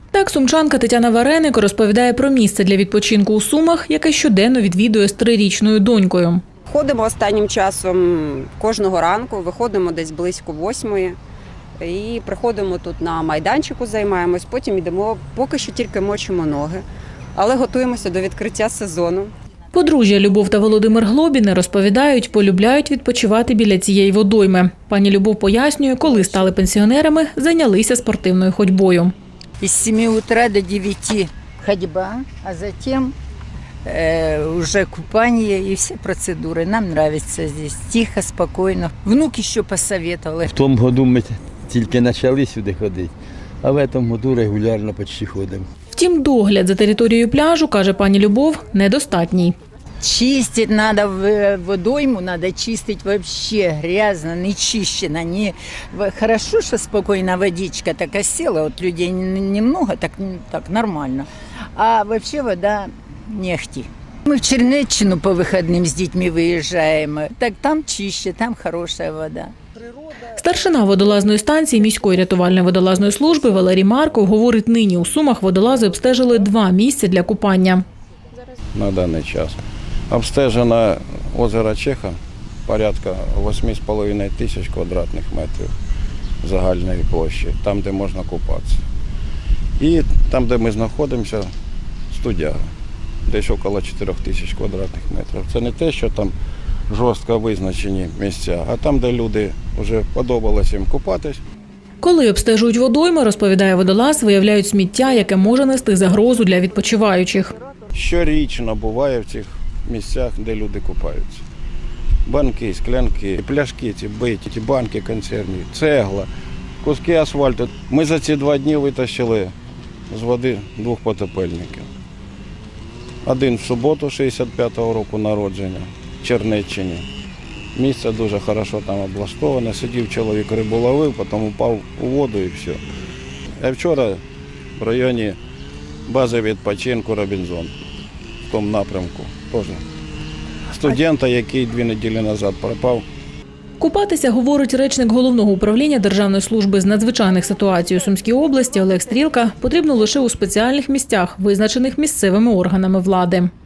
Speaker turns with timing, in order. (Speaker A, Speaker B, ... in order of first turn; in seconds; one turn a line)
Speaker A: 0.1-6.4
Speaker B: 6.7-11.2
Speaker B: 11.8-16.8
Speaker B: 17.4-19.8
Speaker A: 19.7-29.1
Speaker C: 29.6-33.1
Speaker C: 33.9-40.5
Speaker D: 40.5-43.1
Speaker D: 43.6-45.6
Speaker A: 45.9-49.6
Speaker C: 50.0-69.5
Speaker A: 70.3-77.8
Speaker E: 78.7-79.6
Speaker E: 80.1-85.7
Speaker E: 86.4-88.8
Speaker E: 89.8-91.5
Speaker E: 92.1-92.6
Speaker E: 93.3-96.3
Speaker E: 96.9-101.4
Speaker A: 102.0-107.5
Speaker E: 107.9-111.4
Speaker E: 112.3-116.3
Speaker E: 116.8-119.5
Speaker E: 120.1-121.9
Speaker E: 123.2-127.0
Speaker E: 127.8-132.8
Speaker E: 133.6-134.2
Speaker E: 134.8-135.4
Speaker E: 136.1-137.7
Speaker E: 138.5-139.8
Speaker E: 140.7-143.1
Speaker A: 143.8-153.5